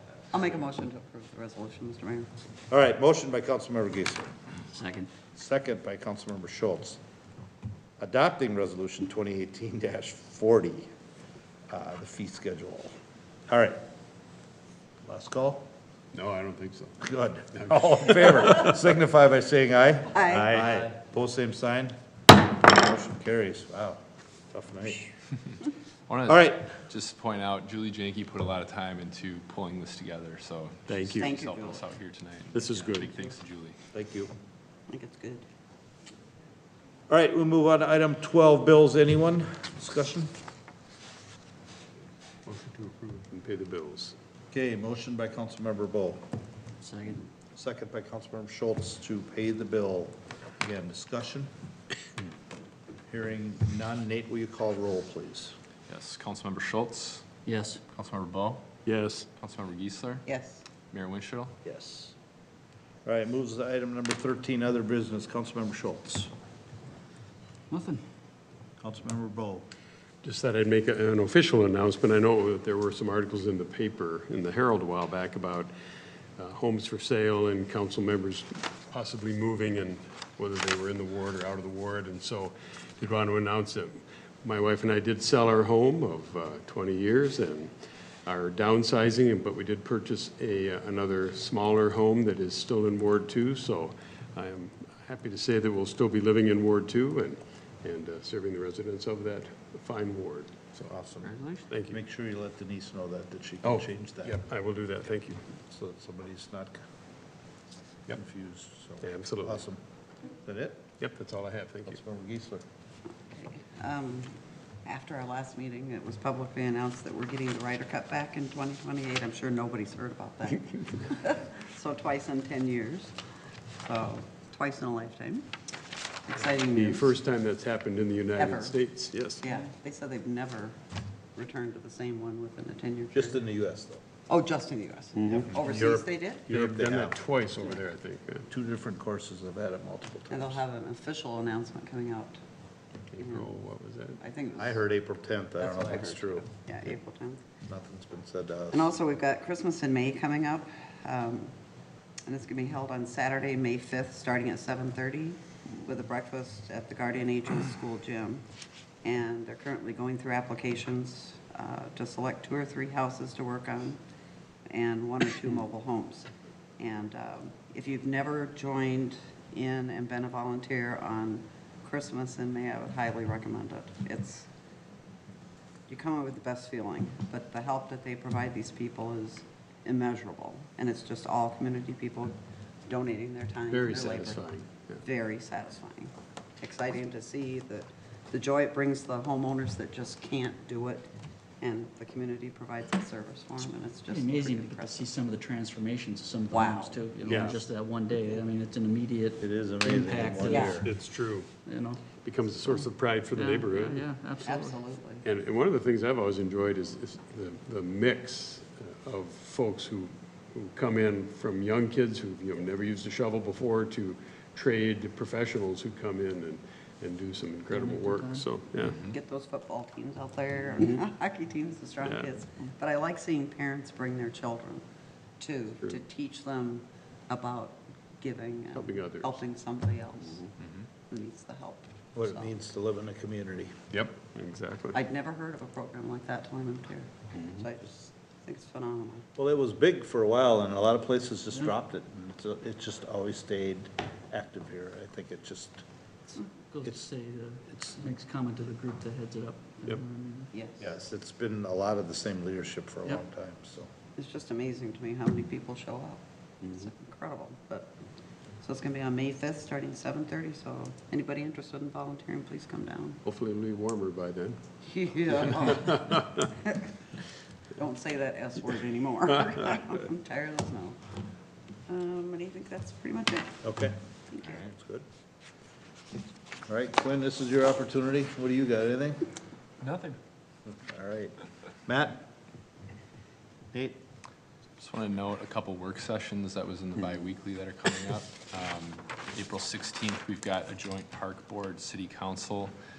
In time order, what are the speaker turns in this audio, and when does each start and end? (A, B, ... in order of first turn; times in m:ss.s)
0:00.3-0:02.3 A
0:02.7-0:04.3 B
0:04.7-0:05.1 C
0:05.4-0:07.0 B
0:08.0-0:10.9 B
0:11.7-0:13.0 B
0:13.5-0:13.8 B
0:15.0-0:15.7 B
0:16.1-0:17.0 D
0:17.0-0:22.0 B
0:17.6-0:18.6 D
0:20.1-0:20.6 A
0:22.5-0:24.0 B
0:24.5-0:25.1 B
0:26.1-0:33.8 E
0:26.3-0:26.7 B
0:30.9-0:31.3 D
0:31.2-0:31.8 A
0:32.5-0:33.1 D
0:33.9-0:34.3 B
0:34.9-0:35.5 A
0:37.1-0:40.3 B
0:42.5-0:44.2 D
0:44.5-0:46.2 B
0:46.8-0:47.3 C
0:47.6-0:51.5 B
0:53.1-0:55.6 B
0:55.9-0:57.2 E
0:57.4-0:57.8 C
0:57.9-0:58.8 E
0:58.9-0:59.3 D
0:59.4-1:00.3 E
1:00.3-1:00.6 A
1:00.9-1:01.6 E
1:01.6-1:02.1 B
1:03.0-1:06.3 B
1:07.7-1:08.0 C
1:08.8-1:09.7 B
1:10.2-1:15.7 D
1:16.4-1:27.7 D
1:28.2-1:42.0 D
1:41.2-1:41.5 E
1:41.9-1:44.4 B
1:43.6-1:45.4 D
1:45.7-1:46.8 B
1:48.1-1:49.8 B
1:49.0-1:49.6 D
1:50.4-1:50.8 B
1:51.0-1:52.0 D
1:51.9-1:52.6 B
1:53.3-2:03.1 A
2:03.8-2:05.5 A
2:06.3-2:07.1 A
2:06.7-2:09.4 D
2:08.4-2:08.8 A
2:09.4-2:10.8 A
2:11.4-2:13.4 A
2:13.1-2:14.0 B
2:14.3-2:16.5 A
2:15.2-2:15.5 D
2:15.6-2:17.2 B
2:16.5-2:18.5 D
2:18.5-2:20.6 B
2:20.3-2:22.4 A
2:23.1-2:24.2 D
2:23.2-2:23.5 A
2:24.2-2:24.8 A
2:24.6-2:26.5 B
2:25.6-2:27.4 A
2:27.7-2:28.9 B
2:28.7-2:31.5 A
2:32.3-2:38.4 A
2:39.0-2:44.0 A
2:44.7-2:54.5 A
2:55.9-3:04.4 A
3:03.7-3:05.0 D
3:05.0-3:11.1 A
3:11.6-3:15.1 A
3:14.1-3:20.9 C
3:16.5-3:17.6 A
3:17.3-3:17.6 B
3:19.4-3:20.9 B
3:20.4-3:20.8 A
3:20.7-3:21.5 D
3:21.6-3:22.0 C
3:22.2-3:24.1 D
3:23.3-3:24.8 C
3:24.4-3:25.2 A
3:25.2-3:39.0 D
3:37.7-3:38.5 C
3:39.1-3:44.8 A
3:42.0-3:42.3 D
3:45.4-3:50.5 A
3:48.8-3:49.4 D
3:50.6-3:50.9 E
3:51.1-3:52.6 A
3:52.2-3:53.8 B
3:53.9-3:55.0 D
3:54.9-3:59.3 A
3:57.4-3:57.6 D
3:59.4-4:05.8 B
4:06.4-4:10.5 C
4:06.8-4:07.1 B
4:07.7-4:08.0 B
4:10.5-4:10.9 A
4:10.8-4:13.9 B
4:14.2-4:17.9 A
4:18.6-4:23.2 A
4:23.2-4:24.6 D
4:24.8-4:27.0 A
4:25.5-4:26.5 D
4:27.8-4:31.0 A
4:31.9-4:33.6 A
4:33.6-4:35.0 B
4:34.3-4:34.6 A
4:36.7-4:39.2 B
4:39.8-4:40.2 E
4:40.7-4:41.4 B
4:41.9-4:42.2 B
4:43.7-4:44.0 B
4:44.8-4:52.7 E